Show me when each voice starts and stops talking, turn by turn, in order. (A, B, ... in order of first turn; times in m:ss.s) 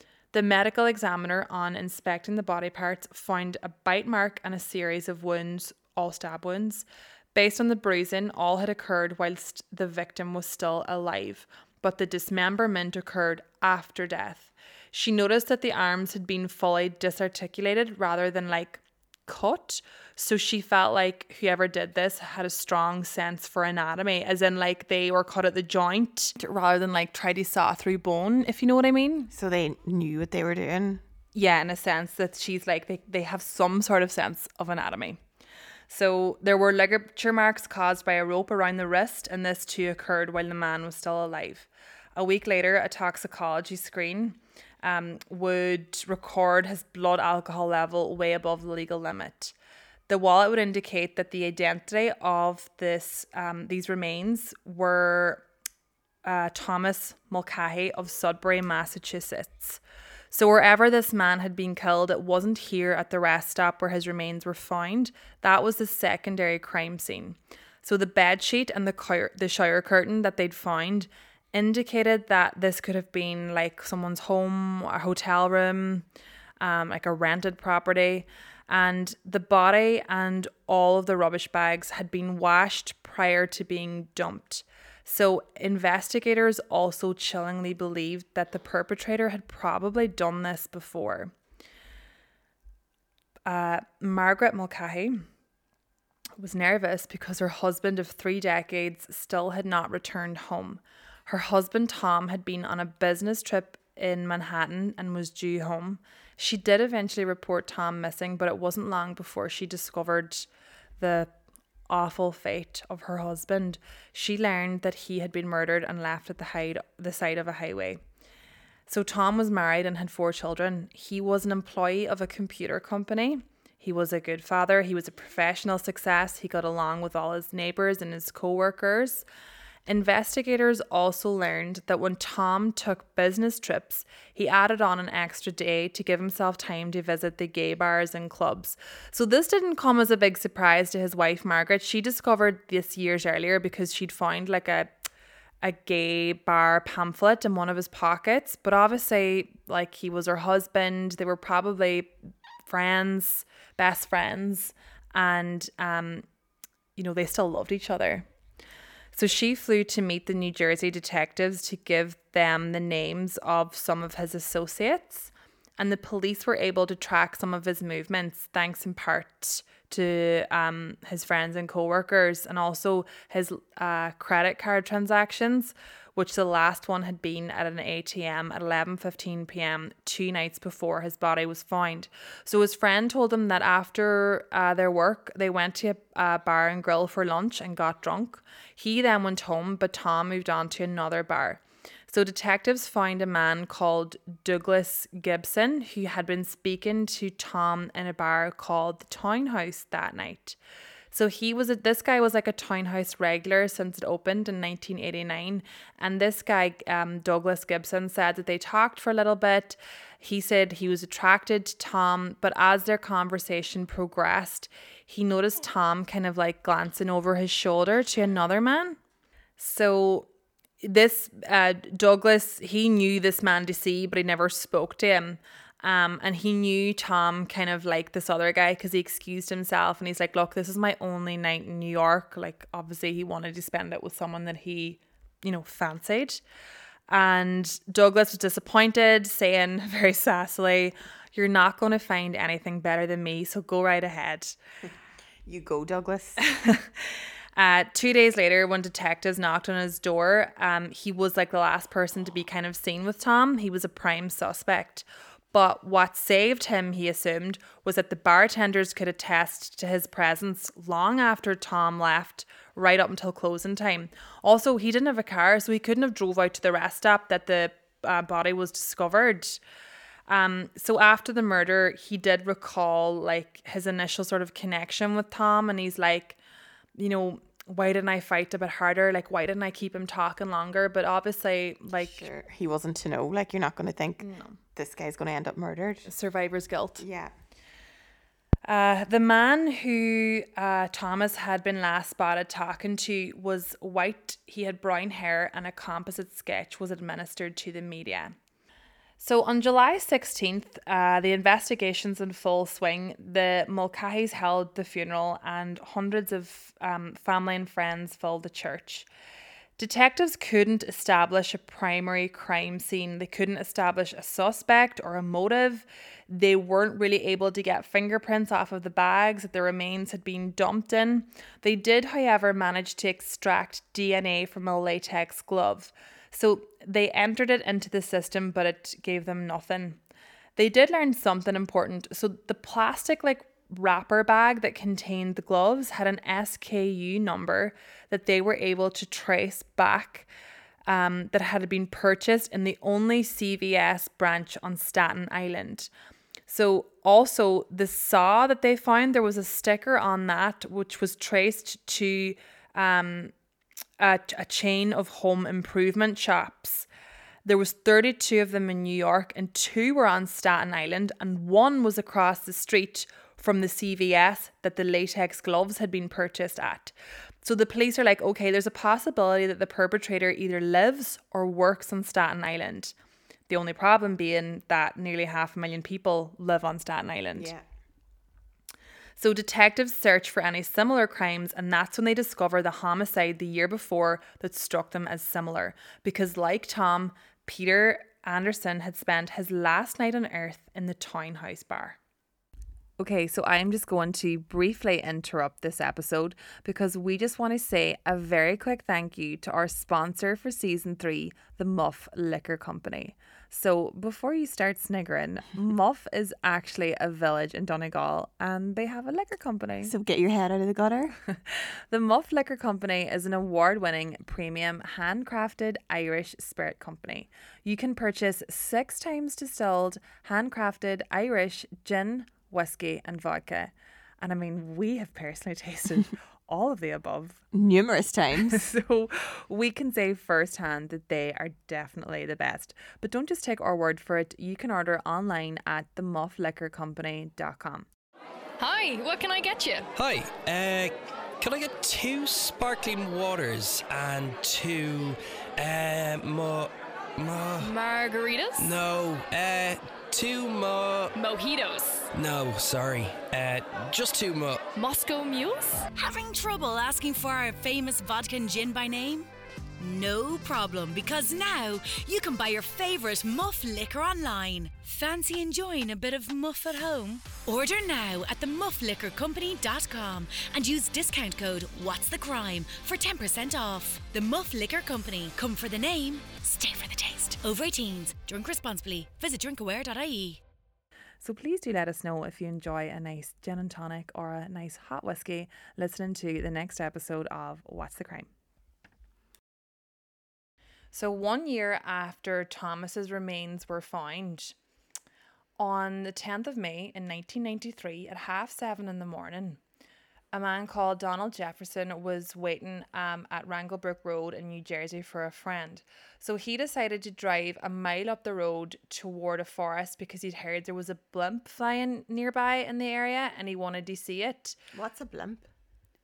0:00.3-0:29.3 A
0:29.3-0:31.0 B
0:31.3-0:35.2 A
0:35.9-0:49.5 A
0:50.1-0:55.4 A
0:56.2-1:16.0 A
1:16.6-1:31.3 A
1:33.4-1:35.2 A
1:36.4-1:50.5 A
1:51.0-1:51.3 A
1:51.9-1:58.0 A
1:58.9-2:09.2 A
2:09.8-2:25.1 A
2:25.6-2:32.1 A
2:32.6-2:36.2 A
2:37.0-2:38.2 A
2:39.1-3:20.6 A
3:21.1-3:39.0 A
3:39.6-3:40.3 A
3:40.8-3:56.4 A
3:57.1-4:04.6 A
4:05.4-4:06.4 B
4:06.5-4:06.9 A
4:07.6-4:29.6 A
4:30.3-4:36.4 A
4:37.0-4:42.3 A
4:42.0-4:46.1 B
4:44.2-4:44.6 A
4:46.1-4:47.0 A
4:47.0-4:47.3 B
4:48.6-4:58.3 A
4:59.2-5:09.1 A
5:09.8-5:30.0 A
5:30.6-5:40.3 A
5:40.9-5:45.9 A
5:46.5-5:53.3 A
5:54.0-5:56.9 A
5:57.4-6:12.9 A
6:13.5-6:17.5 A
6:17.4-6:17.6 B
6:19.2-6:32.0 A
6:33.0-6:49.9 A
6:49.8-6:51.2 B
6:51.4-7:07.4 A
7:07.5-7:08.7 B
7:08.5-7:17.9 A
7:18.6-7:19.9 C
7:20.0-7:27.7 D
7:27.6-7:28.7 C
7:28.6-7:31.1 D
7:31.1-7:32.1 C
7:32.1-7:34.6 D
7:34.7-7:35.8 C
7:35.9-7:39.3 E
7:39.8-8:00.4 E
8:01.2-8:08.3 A
8:10.9-8:14.5 A
8:15.6-8:19.6 A
8:20.3-8:34.6 A
8:34.7-8:35.5 B